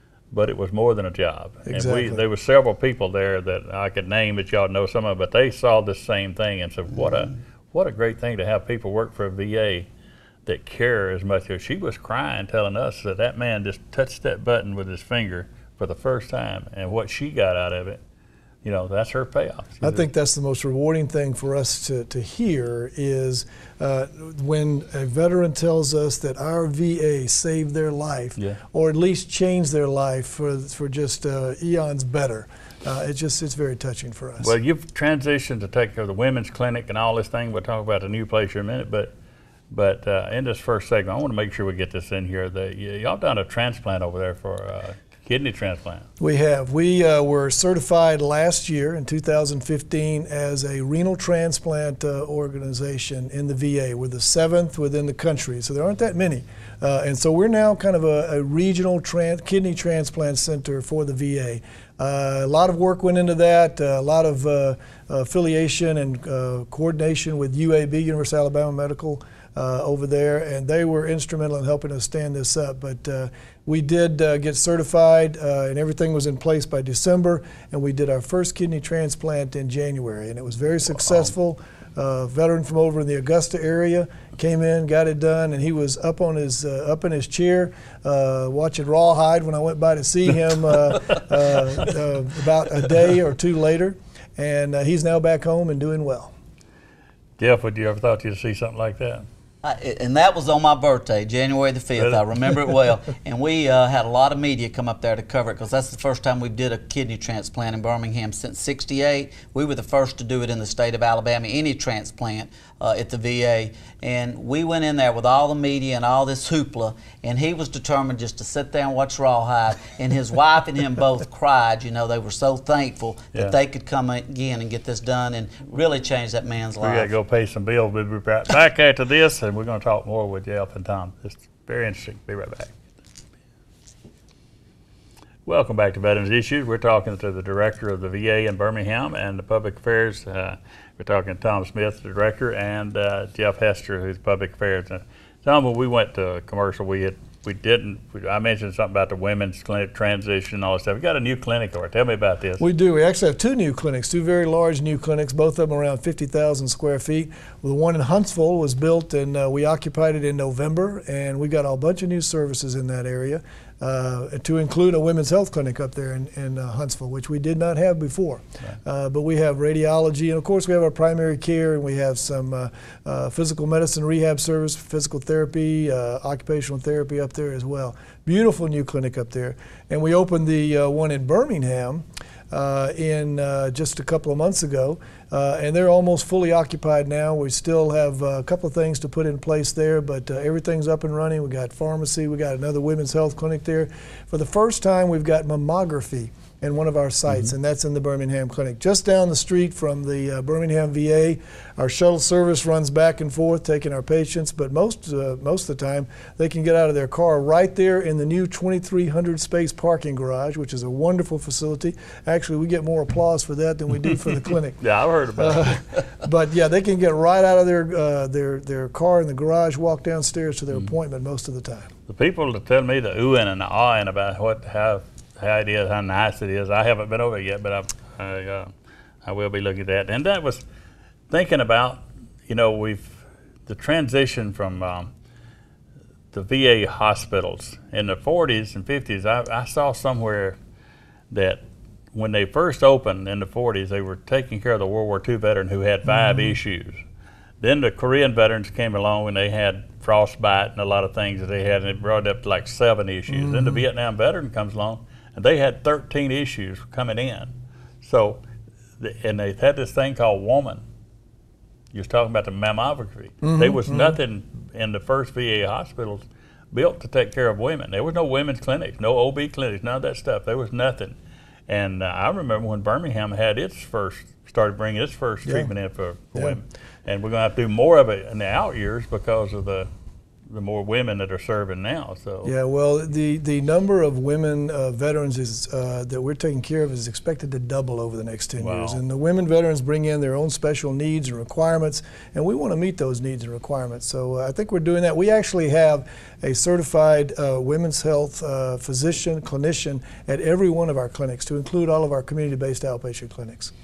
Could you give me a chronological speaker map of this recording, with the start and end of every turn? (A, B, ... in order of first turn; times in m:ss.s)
0:00.3-0:09.9 A
0:01.7-0:02.2 B
0:06.9-0:07.3 C
0:10.4-0:18.0 A
0:18.6-0:20.1 A
0:19.8-0:34.5 B
0:34.4-0:39.1 A
0:39.7-0:46.1 A
0:46.2-1:36.3 B
1:30.9-1:31.2 A
1:37.4-1:39.2 A
1:39.6-2:07.1 C
2:06.8-2:12.8 A
2:15.4-2:32.6 A
2:32.6-3:34.8 B
3:34.8-3:36.0 A
3:35.4-3:41.9 B
3:42.1-3:48.7 A
3:49.2-3:50.6 A
3:51.3-3:55.1 A
3:56.3-4:00.6 A
4:01.3-4:01.6 A
4:02.1-4:07.0 A
4:06.1-4:06.6 B
4:07.6-4:18.4 A
4:13.3-4:13.8 B
4:19.0-4:20.8 A
4:21.9-4:31.2 A
4:23.4-4:24.2 B
4:31.7-4:39.9 A
4:35.4-4:35.7 B
4:40.5-4:42.5 A
4:42.4-5:03.7 B
4:48.6-4:49.0 A